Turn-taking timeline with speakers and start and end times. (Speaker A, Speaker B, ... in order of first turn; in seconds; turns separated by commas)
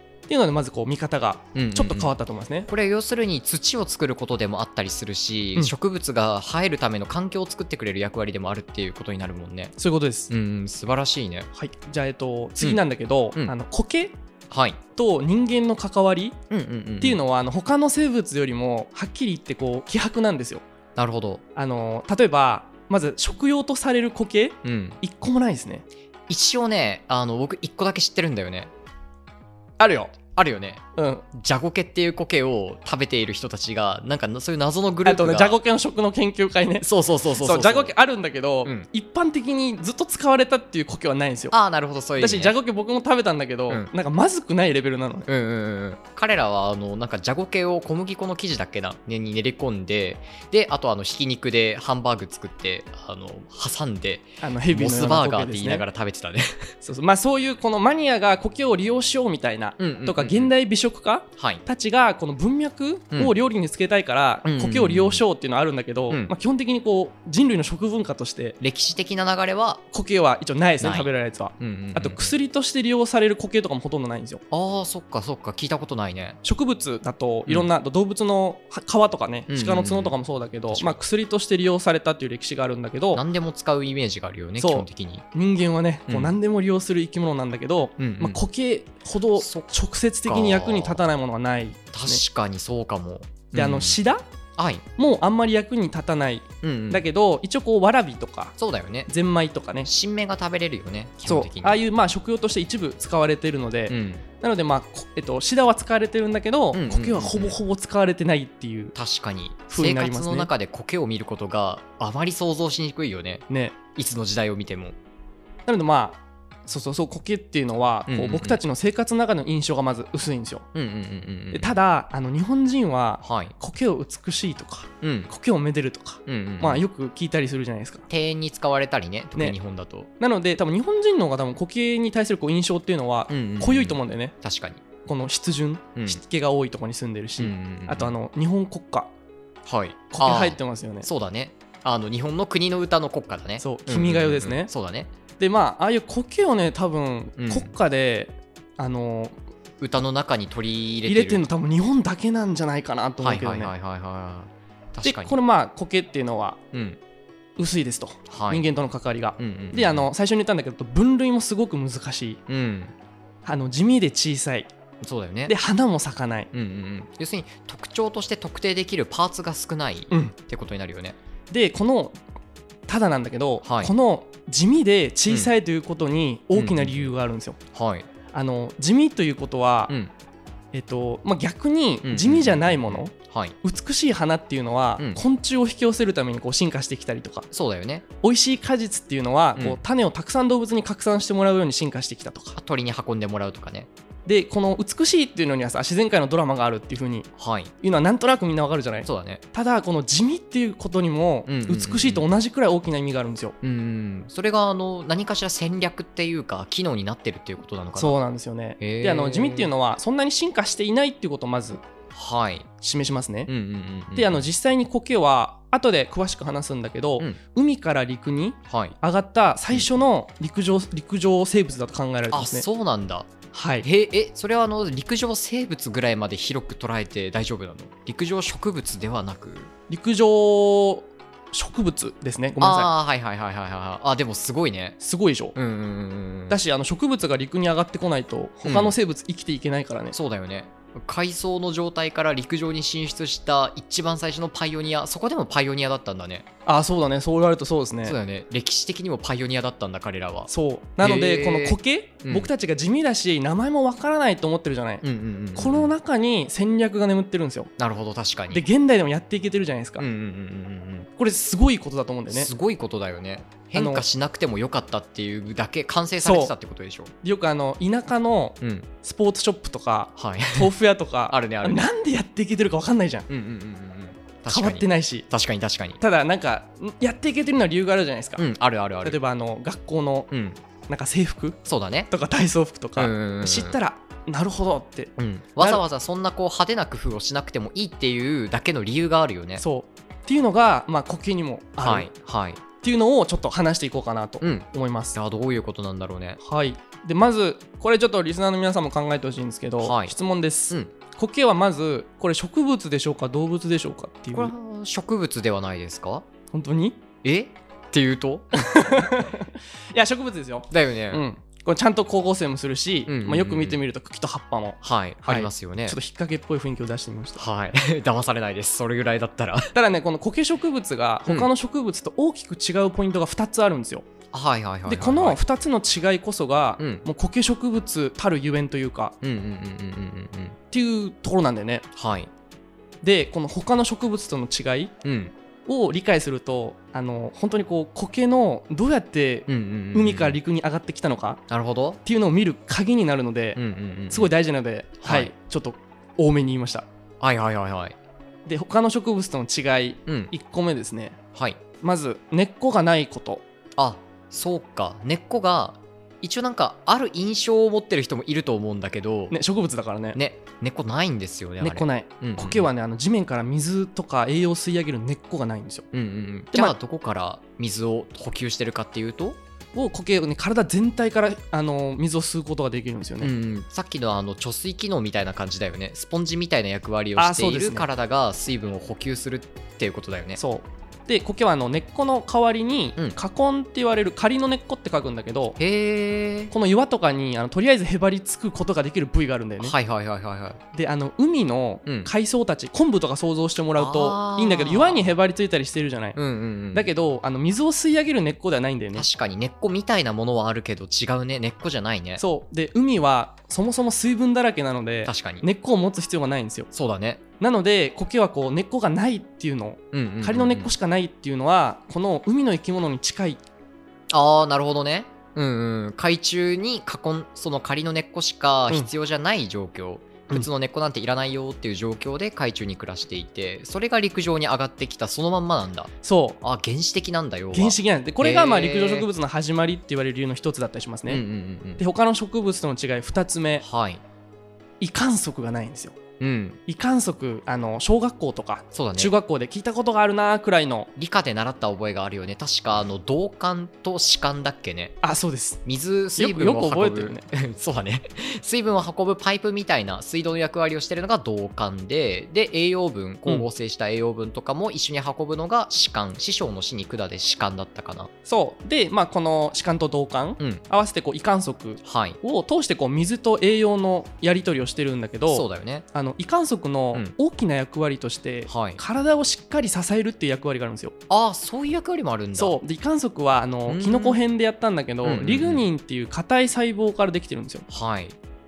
Speaker A: 0.3-2.7, Speaker B: 1.6-2.1, Speaker B: 2.7-9.7, Speaker A: 9.8-10.3, Speaker B: 10.3-11.5, Speaker A: 11.5-14.2, Speaker B: 14.5-14.8, Speaker A: 15.0-16.4, Speaker B: 16.5-17.2, Speaker A: 17.0-20.6, Speaker B: 21.0-21.4, Speaker A: 21.6-25.9, Speaker B: 24.6-25.0, Speaker B: 26.3-28.7, Speaker A: 29.8-30.2, Speaker B: 30.4-30.8, Speaker A: 31.0-31.2, Speaker B: 31.3-35.6, Speaker A: 35.0-41.5, Speaker B: 36.8-37.9, Speaker B: 41.5-42.5, Speaker A: 42.2-45.3, Speaker B: 45.3-56.7, Speaker A: 54.4-55.9, Speaker A: 56.8-68.6, Speaker B: 59.8-60.5, Speaker B: 61.4-61.6, Speaker B: 64.4-65.2, Speaker B: 68.6-69.8, Speaker A: 69.9-74.4, Speaker B: 70.8-72.3, Speaker B: 74.5-76.4, Speaker A: 76.4-83.2, Speaker B: 79.5-80.2, Speaker B: 80.7-81.0, Speaker B: 83.1-85.2, Speaker A: 84.6-92.2, Speaker B: 86.1-86.3, Speaker B: 88.0-88.4, Speaker B: 89.4-89.7, Speaker B: 90.3-91.0, Speaker B: 91.9-94.0, Speaker A: 93.5-94.2, Speaker B: 94.6-94.8, Speaker A: 95.0-98.5, Speaker B: 96.6-97.0, Speaker B: 98.6-99.1, Speaker A: 99.1-99.9, Speaker B: 99.8-101.8, Speaker A: 101.2-109.0, Speaker B: 103.9-104.2, Speaker B: 106.7-107.6, Speaker B: 109.0-113.4, Speaker A: 109.7-110.5, Speaker A: 113.5-113.8, Speaker B: 114.0-115.0, Speaker A: 115.7-120.7, Speaker B: 118.1-118.6, Speaker B: 120.8-121.8, Speaker A: 121.5-128.1, Speaker B: 123.2-123.5, Speaker B: 125.0-125.3, Speaker B: 126.3-126.8, Speaker B: 128.1-130.1, Speaker A: 130.2-134.3, Speaker B: 133.3-134.8, Speaker A: 135.1-139.1, Speaker B: 137.4-138.2, Speaker B: 139.7-145.1, Speaker A: 140.1-141.1, Speaker A: 143.6-144.7, Speaker A: 145.4-149.4, Speaker B: 147.4-147.7, Speaker B: 149.8-151.4, Speaker A: 151.1-153.7, Speaker B: 153.2-155.4, Speaker A: 155.0-156.6, Speaker B: 156.7-157.0, Speaker A: 157.6-162.4, Speaker B: 158.3-158.7, Speaker B: 159.4-160.1, Speaker B: 162.5-162.9, Speaker A: 163.4-164.7, Speaker B: 165.0-165.6, Speaker A: 165.5-166.5, Speaker B: 166.5-171.2, Speaker A: 170.1-170.3, Speaker A: 171.5-172.2, Speaker A: 172.9-177.6, Speaker B: 173.6-173.9, Speaker B: 176.6-177.1, Speaker B: 177.7-178.1, Speaker A: 178.3-179.9, Speaker A: 180.7-183.1, Speaker B: 182.0-183.6, Speaker A: 183.6-187.5, Speaker B: 187.5-188.0, Speaker A: 188.2-192.6, Speaker B: 189.6-189.8, Speaker B: 192.6-193.9, Speaker A: 194.3-197.3, Speaker B: 197.4-197.7, Speaker A: 197.8-203.6, Speaker B: 199.1-199.4, Speaker B: 201.5-202.3, Speaker B: 203.6-208.2, Speaker A: 207.9-211.8, Speaker B: 208.8-209.7, Speaker B: 212.1-212.7, Speaker A: 212.8-213.5, Speaker B: 213.5-214.4, Speaker A: 214.2-222.7, Speaker B: 218.7-218.9, Speaker B: 219.7-220.0, Speaker B: 222.3-223.3, Speaker A: 223.5-223.9, Speaker B: 223.8-229.7, Speaker A: 229.9-232.9, Speaker B: 232.6-235.0, Speaker A: 235.0-235.6, Speaker B: 235.6-236.6, Speaker A: 236.5-240.2, Speaker B: 238.6-238.9, Speaker B: 240.1-246.5, Speaker A: 246.7-248.2, Speaker B: 248.0-252.5, Speaker A: 250.5-255.0, Speaker B: 255.0-255.9, Speaker A: 255.6-257.7, Speaker B: 257.8-258.6, Speaker A: 258.5-260.1, Speaker B: 260.0-261.1, Speaker A: 261.2-262.5, Speaker B: 262.3-267.1, Speaker A: 263.8-264.1, Speaker A: 266.2-266.5, Speaker A: 267.2-273.3, Speaker B: 268.6-268.9, Speaker B: 270.2-270.7, Speaker B: 271.3-271.9, Speaker B: 273.3-276.0, Speaker A: 274.5-275.3, Speaker A: 276.0-278.4, Speaker B: 278.4-279.2, Speaker A: 279.0-280.3, Speaker B: 280.3-280.6, Speaker A: 280.9-281.6, Speaker B: 281.6-282.1, Speaker A: 282.1-285.8, Speaker B: 283.0-283.8, Speaker B: 285.2-289.6, Speaker A: 289.6-292.1, Speaker B: 291.8-292.6, Speaker A: 292.8-295.2, Speaker B: 294.4-296.4, Speaker A: 296.4-304.5, Speaker B: 299.8-300.1, Speaker B: 304.3-306.2, Speaker A: 306.5-307.0, Speaker B: 307.2-309.0, Speaker A: 308.5-317.5, Speaker B: 310.7-311.2, Speaker B: 313.1-313.8, Speaker B: 314.8-316.0, Speaker B: 317.4-319.7, Speaker A: 319.7-324.1, Speaker B: 324.3-325.4, Speaker A: 324.9-329.1, Speaker B: 326.8-327.1, Speaker B: 329.2-330.6, Speaker A: 330.7-331.9, Speaker B: 332.0-332.3, Speaker A: 333.0-334.9, Speaker B: 335.0-335.3, Speaker A: 335.7-341.4, Speaker B: 339.5-340.4, Speaker B: 341.5-342.0, Speaker A: 342.1-343.6, Speaker B: 343.6-344.3, Speaker A: 344.1-346.9, Speaker B: 345.0-345.3, Speaker B: 347.2-348.0, Speaker A: 348.5-351.2, Speaker B: 350.1-350.3, Speaker A: 351.8-353.4, Speaker B: 353.8-359.4, Speaker A: 359.3-360.2, Speaker B: 360.1-362.7, Speaker A: 361.6-365.9, Speaker B: 365.9-369.4, Speaker A: 369.8-373.3, Speaker B: 373.2-380.4, Speaker A: 377.2-377.9, Speaker A: 380.4-385.6, Speaker B: 385.6-386.5, Speaker A: 386.5-389.8, Speaker B: 389.6-390.6, Speaker A: 390.7-396.2, Speaker B: 391.9-392.1, Speaker B: 393.8-395.1, Speaker B: 396.1-396.9, Speaker A: 396.7-399.1, Speaker B: 398.9-402.2, Speaker A: 402.2-406.7, Speaker B: 405.1-405.4, Speaker B: 406.7-407.2, Speaker A: 407.4-413.4, Speaker B: 409.9-410.7, Speaker B: 414.1-425.9, Speaker A: 426.0-426.4, Speaker B: 426.4-429.1, Speaker A: 427.5-431.2, Speaker B: 431.1-431.8, Speaker A: 431.8-433.6, Speaker B: 433.6-434.0, Speaker A: 434.8-436.0, Speaker B: 436.2-436.6, Speaker A: 436.7-440.9, Speaker B: 438.7-439.1, Speaker B: 441.0-444.9, Speaker A: 445.0-445.6, Speaker B: 445.6-458.1, Speaker A: 446.2-447.3, Speaker A: 458.3-470.9, Speaker B: 461.8-462.2, Speaker B: 465.3-465.9, Speaker B: 468.5-468.8, Speaker B: 471.1-472.6, Speaker A: 472.4-477.7, Speaker B: 473.7-474.2, Speaker B: 475.0-475.7, Speaker B: 477.7-478.1